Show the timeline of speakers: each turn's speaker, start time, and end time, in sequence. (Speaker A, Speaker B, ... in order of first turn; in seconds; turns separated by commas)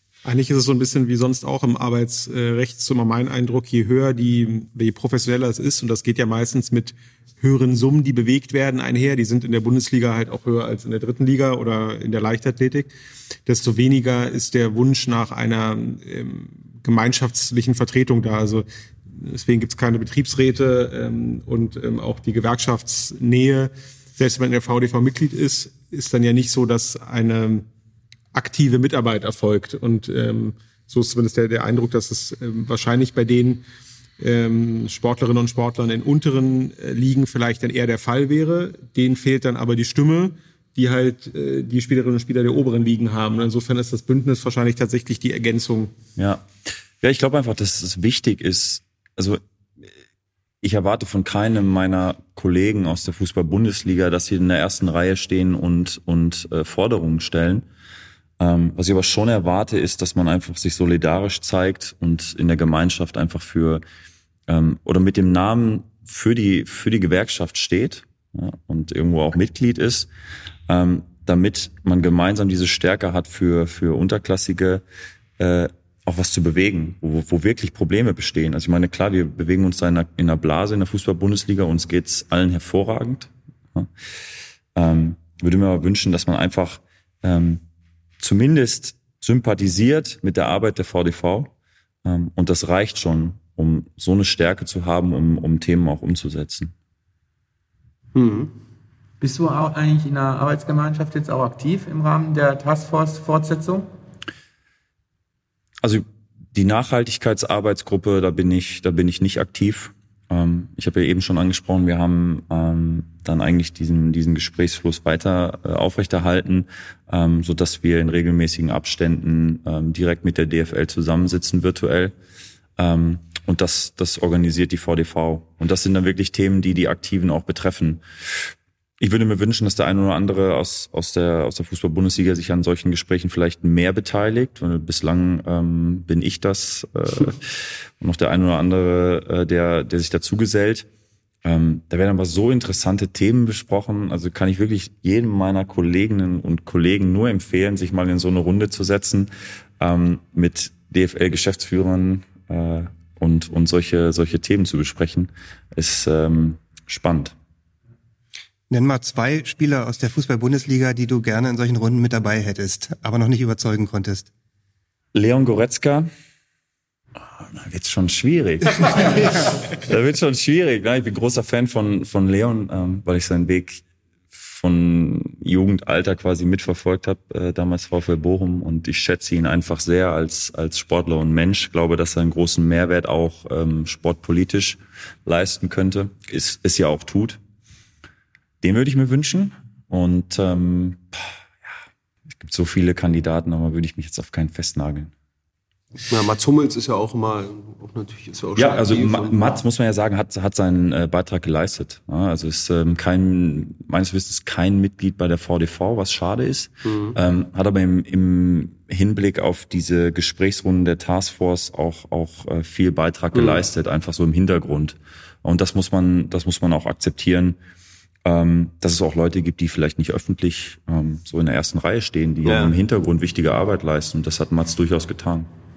Speaker A: 0.2-12.9, Speaker A: 13.5-27.6, Speaker A: 28.3-33.6, Speaker A: 34.2-45.9, Speaker B: 46.2-46.5, Speaker B: 47.0-49.4, Speaker B: 50.6-57.7, Speaker B: 58.4-63.8, Speaker B: 64.5-70.1, Speaker B: 70.7-74.8, Speaker B: 75.4-83.9, Speaker B: 84.8-87.6, Speaker B: 88.2-91.5, Speaker B: 92.0-96.7, Speaker C: 98.2-98.5, Speaker D: 99.2-103.9, Speaker B: 105.8-122.2, Speaker B: 122.8-140.9, Speaker B: 141.4-157.3, Speaker E: 158.7-164.3, Speaker B: 165.1-166.1, Speaker B: 167.4-173.8, Speaker B: 174.3-187.4, Speaker B: 188.6-191.7, Speaker B: 192.3-195.1, Speaker C: 196.1-199.6, Speaker B: 198.6-217.6, Speaker C: 206.8-207.2, Speaker C: 213.3-213.6, Speaker B: 218.2-225.5, Speaker C: 222.4-222.7